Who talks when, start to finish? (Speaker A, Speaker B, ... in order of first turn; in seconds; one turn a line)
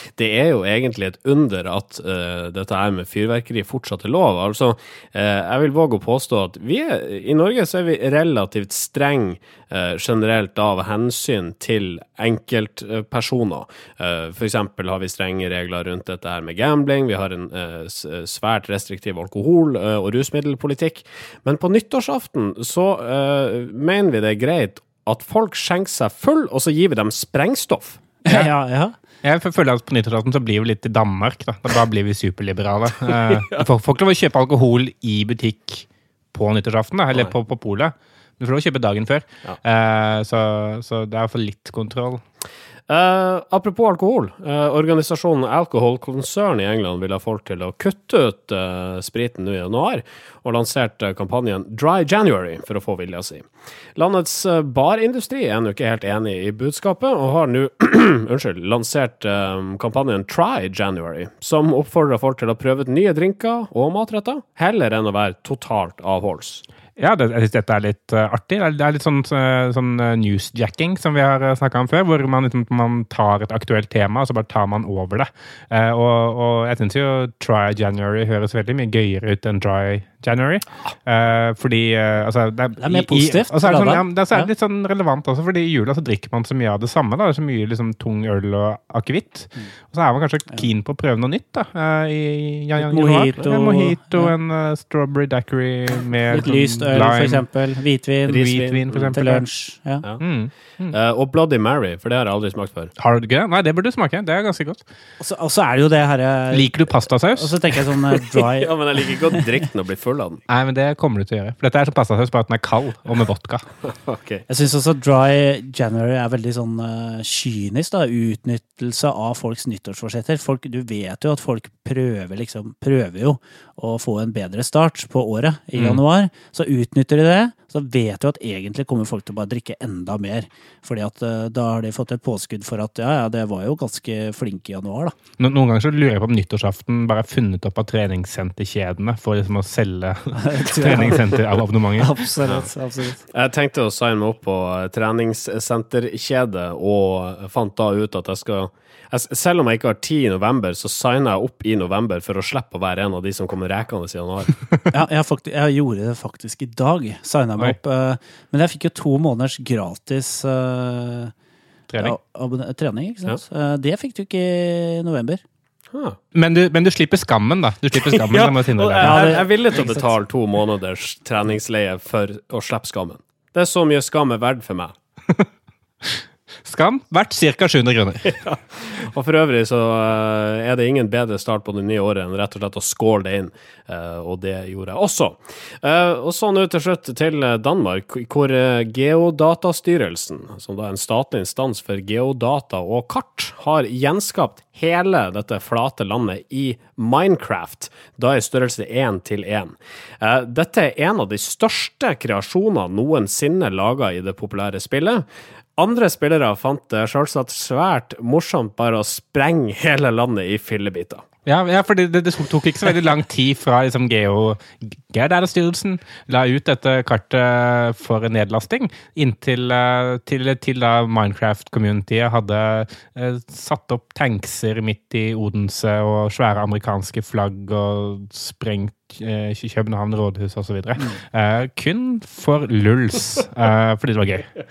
Speaker A: 0.2-28.0
Speaker B: 28.2-28.9
Speaker C: 29.2-42.2
Speaker A: 33.1-33.6
Speaker A: 42.9-66.6
Speaker C: 67.0-97.5
Speaker B: 82.8-84.5
Speaker B: 92.8-94.3
Speaker B: 96.3-98.5
Speaker C: 98.3-99.5
Speaker A: 98.3-99.2
Speaker B: 99.1-100.0
Speaker C: 100.2-101.0
Speaker A: 100.9-102.9
Speaker C: 103.0-104.8
Speaker B: 105.2-108.8
Speaker C: 106.5-107.6
Speaker A: 108.2-110.4
Speaker C: 110.5-113.7
Speaker A: 113.8-114.5
Speaker B: 114.5-135.2
Speaker C: 125.8-126.0
Speaker C: 135.4-142.1
Speaker B: 140.4-143.2
Speaker A: 143.3-154.6
Speaker B: 154.9-161.3
Speaker C: 161.9-162.2
Speaker B: 162.0-165.4
Speaker A: 165.9-166.2
Speaker C: 166.3-169.4
Speaker A: 168.0-174.9
Speaker B: 169.0-170.1
Speaker C: 176.0-178.4
Speaker A: 178.3-205.2
Speaker A: 205.8-211.2
Speaker C: 211.5-234.5